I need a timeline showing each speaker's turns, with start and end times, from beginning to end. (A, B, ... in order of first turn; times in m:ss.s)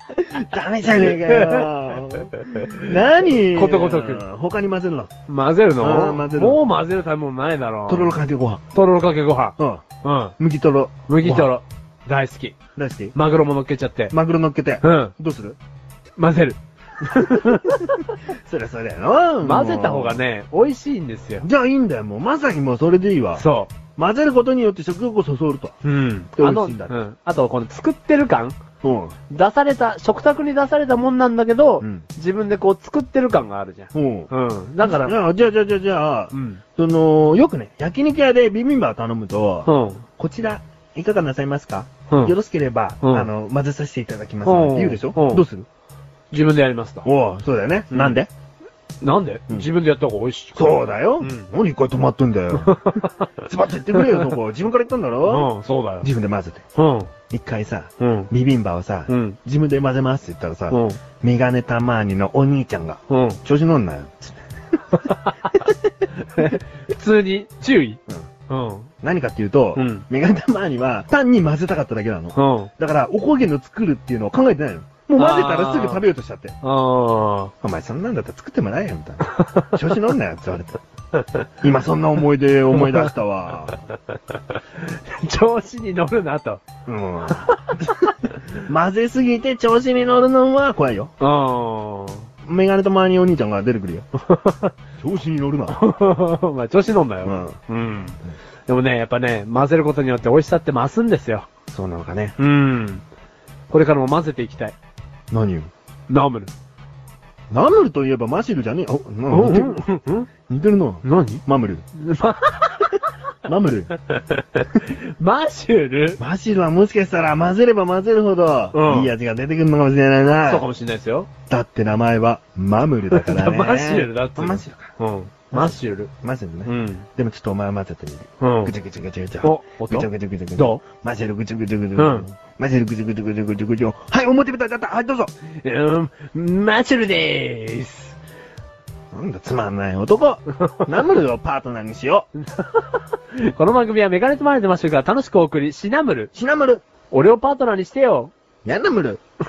0:00.2-0:05.1 A
0:00.9-0:04.2 B
0:05.3-0:08.2 B
0:05.8-0:06.6 A
0:07.9-0:08.6 A
0:08.7-0:10.4 B
0:09.6-0:09.8 A
0:10.4-0:11.5 A
0:11.1-0:12.6 B
0:12.8-0:13.2 A
0:13.1-0:14.1 B
0:14.1-0:15.6 A
0:14.8-0:15.1 B
0:16.2-0:18.2 B
0:17.2-0:20.2 A
0:19.4-0:21.5 B
0:21.4-0:23.4 A
0:23.4-0:23.7 B
0:24.0-0:25.8 A
0:25.8-0:28.6 B
0:26.3-0:27.0 A
0:28.8-0:29.2 A
0:29.3-0:35.2 B
0:33.9-0:45.7 A
0:36.3-0:36.6 B
0:39.7-0:40.0 B
0:42.1-0:42.3 B
0:43.0-0:43.3 B
0:44.4-0:45.4 B
0:46.3-0:47.1 B
0:47.0-0:48.3 A
0:47.9-0:48.2 B
0:49.0-0:51.5 B
0:50.6-0:55.5 A
0:52.6-0:53.3 B
0:53.9-0:54.3 B
0:55.3-0:56.1 B
0:56.0-0:56.6 A
0:56.8-0:57.1 B
0:57.3-1:04.4 A
0:58.0-0:58.3 B
0:59.1-0:59.4 B
1:00.7-1:01.0 B
1:03.1-1:03.4 B
1:04.9-1:08.9 B
1:09.0-1:16.6 A
1:09.8-1:10.0 B
1:12.4-1:12.7 B
1:15.2-1:16.0 B
1:16.6-1:17.5 B
1:17.6-1:20.8 A
1:19.4-1:20.0 B
1:21.6-1:23.8 A
1:22.7-1:23.1 B
1:24.3-1:26.6 B
1:26.9-1:31.1 A
1:27.4-1:27.9 B
1:31.2-1:32.3 B
1:32.5-1:34.1 A
1:34.3-1:34.7 B
1:35.0-1:35.8 A
1:35.7-1:41.5 B
1:37.2-1:37.6 A
1:41.7-1:42.4 A
1:42.4-1:43.0 B
1:43.7-1:44.8 B
1:45.3-1:45.7 A
1:46.1-1:46.5 B
1:47.5-1:49.8 A
1:49.3-1:50.3 B
1:50.5-1:51.8 A
1:51.0-1:51.4 B
1:52.0-1:53.1 B
1:53.5-1:53.9 A
1:54.1-1:56.2 B
1:56.2-2:00.7 A
1:58.7-1:59.1 B
2:00.5-2:01.3 B
2:01.5-2:04.9 A
2:03.1-2:06.1 B
2:05.5-2:15.3 A
2:06.7-2:07.1 B
2:08.4-2:08.7 B
2:09.4-2:10.8 B
2:12.0-2:12.3 B
2:15.6-2:18.2 B
2:19.1-2:22.3 A
2:20.6-2:20.8 B
2:22.4-2:26.3 B
2:26.3-2:26.8 A
2:27.1-2:28.3 B
2:28.6-2:29.2 A